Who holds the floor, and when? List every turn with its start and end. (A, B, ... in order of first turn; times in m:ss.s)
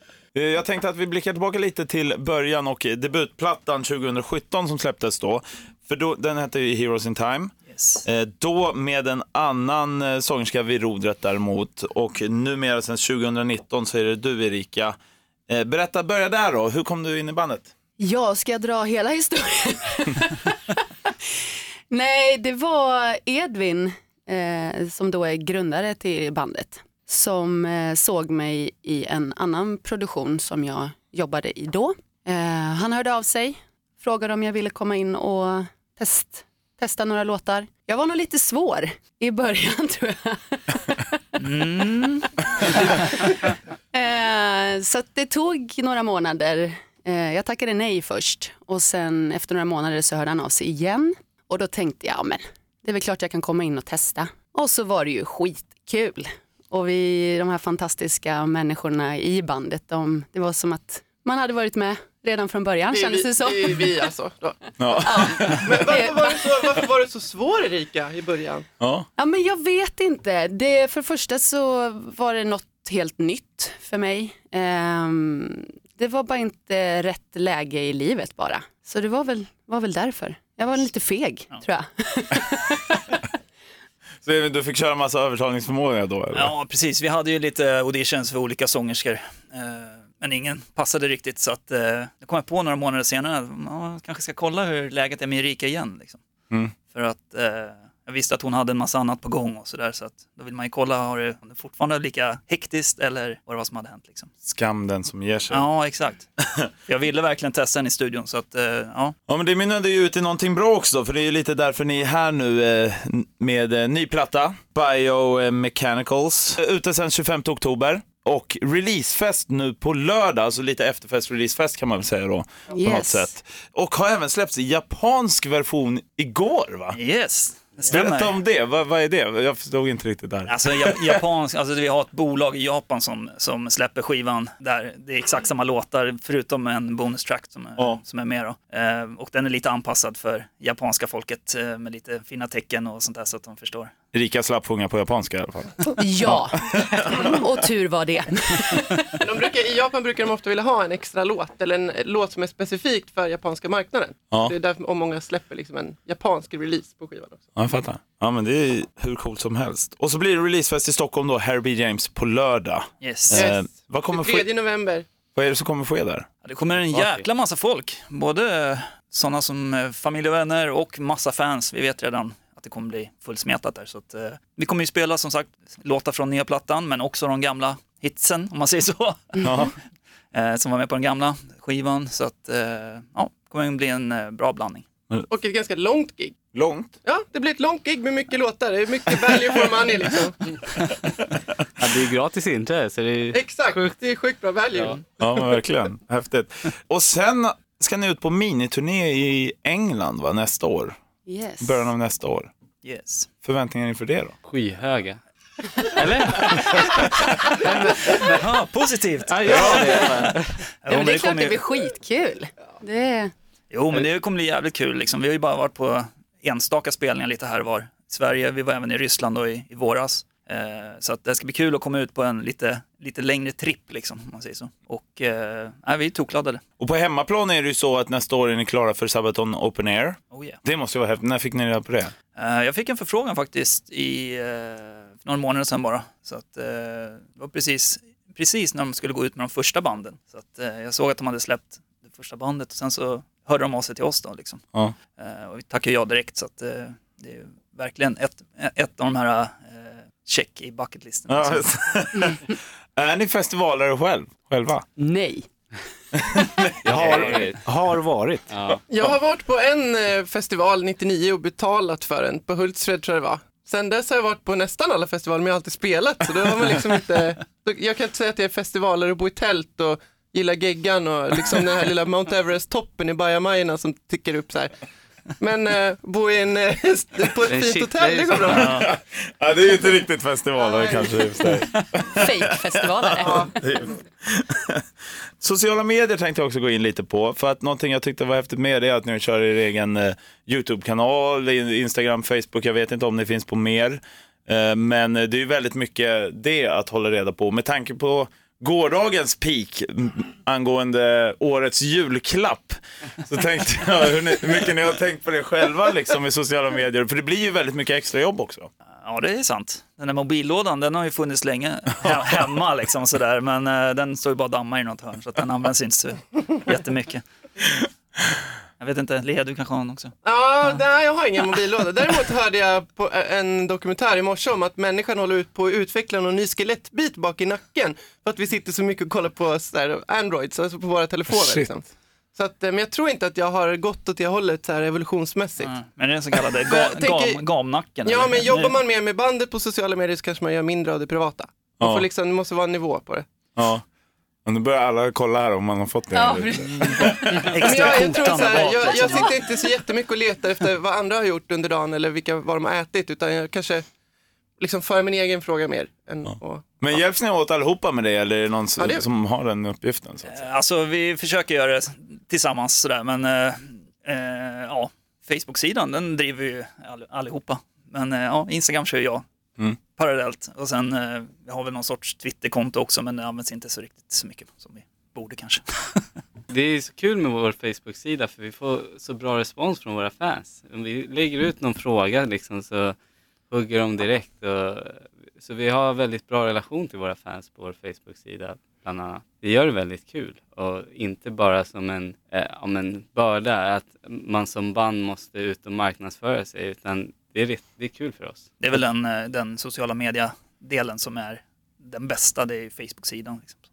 0:00.3-0:07.5 A
0:07.7-0:08.0 B
0:08.0-0:15.0 A
0:15.5-0:17.7 A
0:18.0-0:20.8 C
0:21.9-0:41.4 C
0:41.4-0:42.2 B
0:42.2-1:04.1 C
1:02.9-1:04.7 D
1:04.8-1:05.7 A
1:05.0-1:06.8 C
1:05.4-1:08.7 D
1:08.8-1:09.1 A
1:09.2-1:23.2 C
1:24.2-1:26.5 A
1:26.3-1:36.2 B
1:36.9-1:44.3 B
1:44.4-1:45.7 A
1:45.5-1:46.3 B
1:46.9-1:49.2 B
1:49.3-2:07.0 A
2:02.7-2:03.3 C
2:06.9-2:08.4 B
2:07.9-2:11.2 A
2:10.5-2:23.9 B
2:24.1-2:27.4 A
2:26.0-2:29.0 C
2:29.2-2:37.4 D
2:37.6-2:44.5 A
2:43.0-2:43.4 B
2:43.3-2:45.1 D
2:45.4-2:46.3 A
2:46.4-2:59.7 B
2:59.4-2:59.7 A
3:00.3-3:04.9 B
3:05.3-3:06.4 D
3:06.5-3:06.9 A
3:07.0-3:10.4 D
3:11.8-3:13.9 E
3:13.3-3:15.0 D
3:14.7-3:15.0 E
3:15.2-3:21.0 A
3:21.3-3:21.9 C
3:21.6-3:22.5 A
3:22.8-3:23.3 B
3:23.4-3:24.3 A
3:24.4-3:25.2 E
3:25.9-3:28.4 E
3:28.1-3:31.6 B
3:29.3-3:30.6 E
3:30.9-3:33.3 C
3:33.7-3:46.6 B
3:46.8-3:52.1 A
3:50.3-3:50.6 B
3:52.4-4:04.6 B
4:05.2-4:11.8 B
4:11.3-4:14.8 A
4:15.0-4:15.5 C
4:16.3-4:18.5 A
4:16.8-4:17.6 E
4:16.9-4:17.5 B
4:18.5-4:18.8 E
4:18.9-4:34.7 D
4:35.4-4:38.8 D
4:37.4-4:38.6 E
4:38.5-4:38.9 B
4:38.6-4:44.8 A
4:40.6-4:41.3 C
4:42.1-4:43.5 C
4:45.4-5:08.7 A
5:09.0-5:17.2 B
5:18.8-5:20.1 B
5:20.2-5:35.8 D
5:31.3-5:31.7 A
5:35.6-5:38.8 B
5:36.6-5:37.4 D
5:38.0-5:43.3 D
5:43.6-5:43.8 A
5:44.4-5:47.2 A
5:46.1-5:49.4 C
5:47.4-5:49.4 B
5:47.6-5:53.8 D
5:54.6-5:56.8 D
5:56.3-6:00.4 A
5:58.8-5:59.1 D
6:00.2-6:09.2 B
6:09.8-6:16.0 B
6:16.5-6:23.0 E
6:23.5-6:38.5 E
6:38.6-6:43.6 B